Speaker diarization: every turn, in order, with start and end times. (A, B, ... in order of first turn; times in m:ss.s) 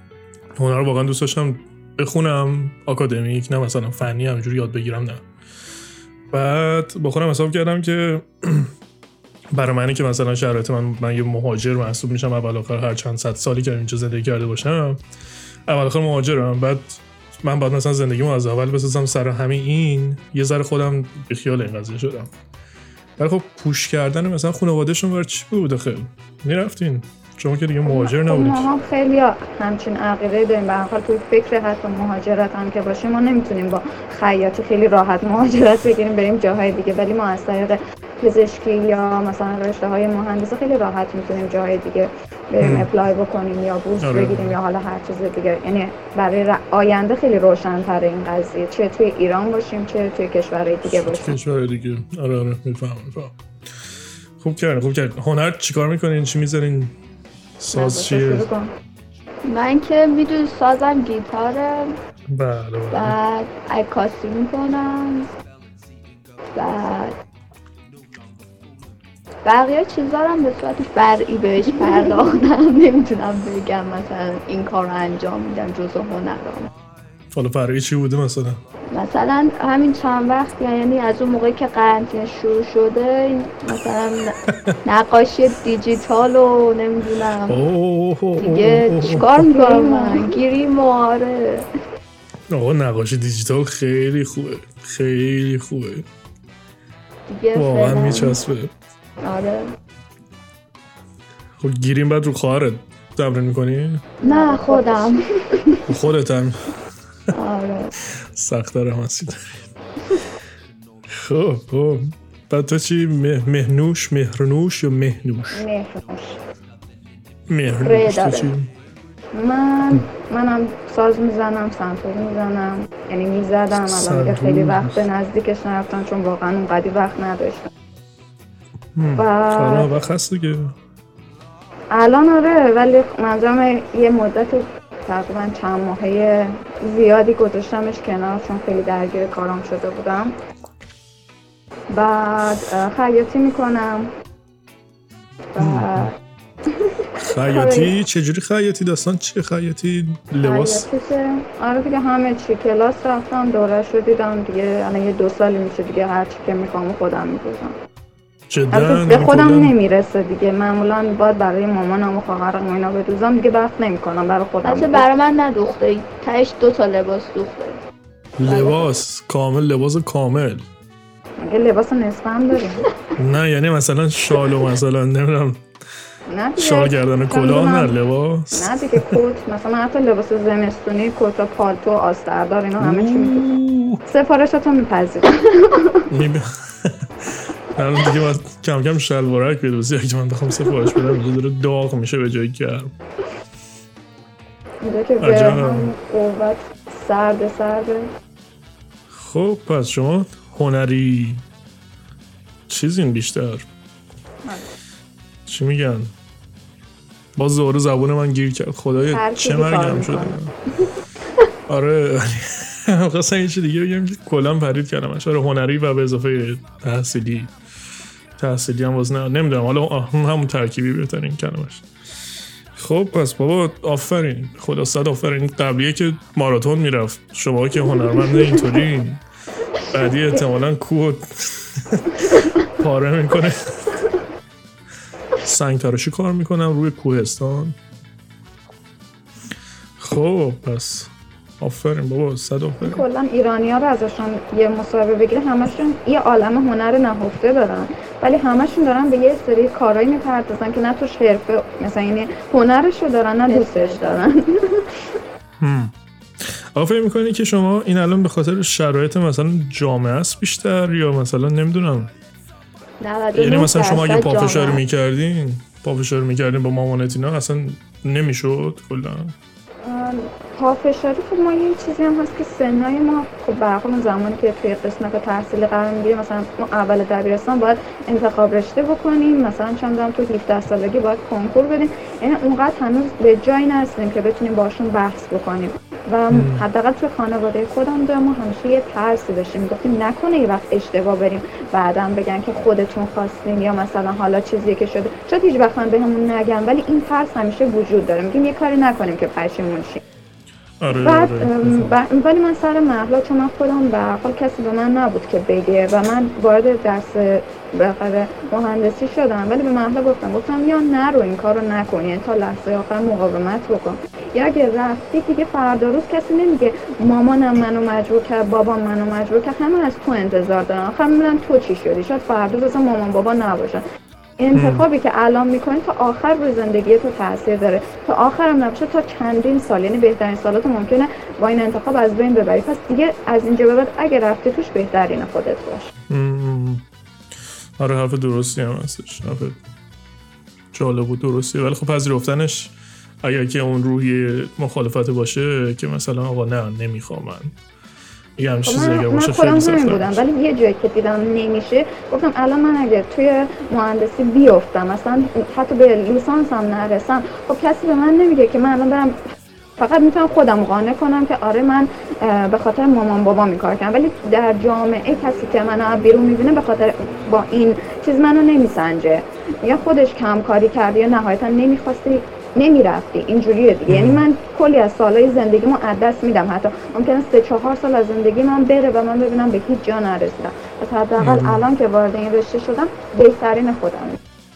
0:00.6-0:05.2 A
0:06.3-0:08.7 A
0:09.5-0:15.0 A
0:15.7-0:22.3 A
0:23.2-0:28.7 A
0:27.9-0:51.3 B
0:42.6-0:42.9 A
0:44.0-0:44.6 A
0:50.8-0:53.4 A
0:54.4-0:57.0 A
0:57.6-0:58.5 A
0:57.7-0:58.7 B
0:59.4-1:02.0 C
1:02.3-1:03.2 A
1:02.9-1:05.3 C
1:06.6-1:07.2 C
1:09.4-1:16.7 C
1:11.8-1:12.2 B
1:17.3-1:18.6 A
1:18.9-1:27.6 C
1:24.5-1:24.8 A
1:27.5-1:29.4 A
1:28.4-1:31.7 C
1:29.3-1:30.4 B
1:32.5-1:36.1 A
1:37.3-1:38.4 C
1:37.6-1:38.7 A
1:39.2-1:39.7 C
1:41.6-1:44.0 A
1:44.2-1:45.8 B
1:44.2-1:45.8 C
1:45.9-1:46.6 A
1:47.4-1:48.0 C
1:48.2-1:49.6 A
1:51.1-1:55.6 A
1:55.5-1:56.4 B
1:57.5-1:58.7 A
1:57.8-1:58.5 C
1:59.4-2:07.7 B
2:03.7-2:05.1 A
2:09.0-2:10.8 A
2:09.2-2:09.9 B
2:11.9-2:20.3 B
2:21.9-2:24.1 B
2:25.5-2:26.2 B
2:25.6-2:26.1 A
2:26.8-2:27.9 B
2:27.2-2:30.9 A
2:30.4-2:37.8 B
2:38.5-2:39.7 A
2:38.7-2:45.1 B
2:44.6-2:47.8 C
2:48.4-2:50.7 A
2:48.5-2:48.8 C
2:51.4-2:52.9 B
2:53.2-2:55.6 A
2:56.3-2:57.9 B
2:56.6-2:59.2 A
2:58.5-3:03.4 B
3:02.8-3:04.0 A
3:04.1-3:06.0 B
3:06.1-3:12.9 A
3:14.8-3:18.1 B
3:15.2-3:15.9 A
3:19.1-3:21.4 A
3:22.7-3:23.7 A
3:25.5-3:26.1 A
3:27.4-3:30.5 A
3:29.1-3:30.4 B
3:31.7-3:37.5 A
3:38.4-3:41.9 A
3:42.8-3:49.2 A
3:49.9-3:54.0 A
3:55.4-3:57.8 A
4:00.0-4:03.0 A
4:02.8-4:14.8 B
4:13.5-4:14.3 C
4:15.6-4:22.1 A
4:23.0-4:24.8 C
4:23.4-4:29.4 A
4:29.8-5:00.0 B
4:46.3-4:46.6 A
5:00.8-5:02.0 A
5:00.9-5:23.8 B
5:24.4-5:35.9 B
5:24.5-5:24.8 A
5:36.1-5:36.8 A
5:37.8-5:39.6 A
5:40.7-5:47.6 A
5:48.4-5:50.2 A
5:48.7-5:59.2 B
5:59.8-6:24.2 B
6:13.9-6:14.2 A
6:21.2-6:21.6 A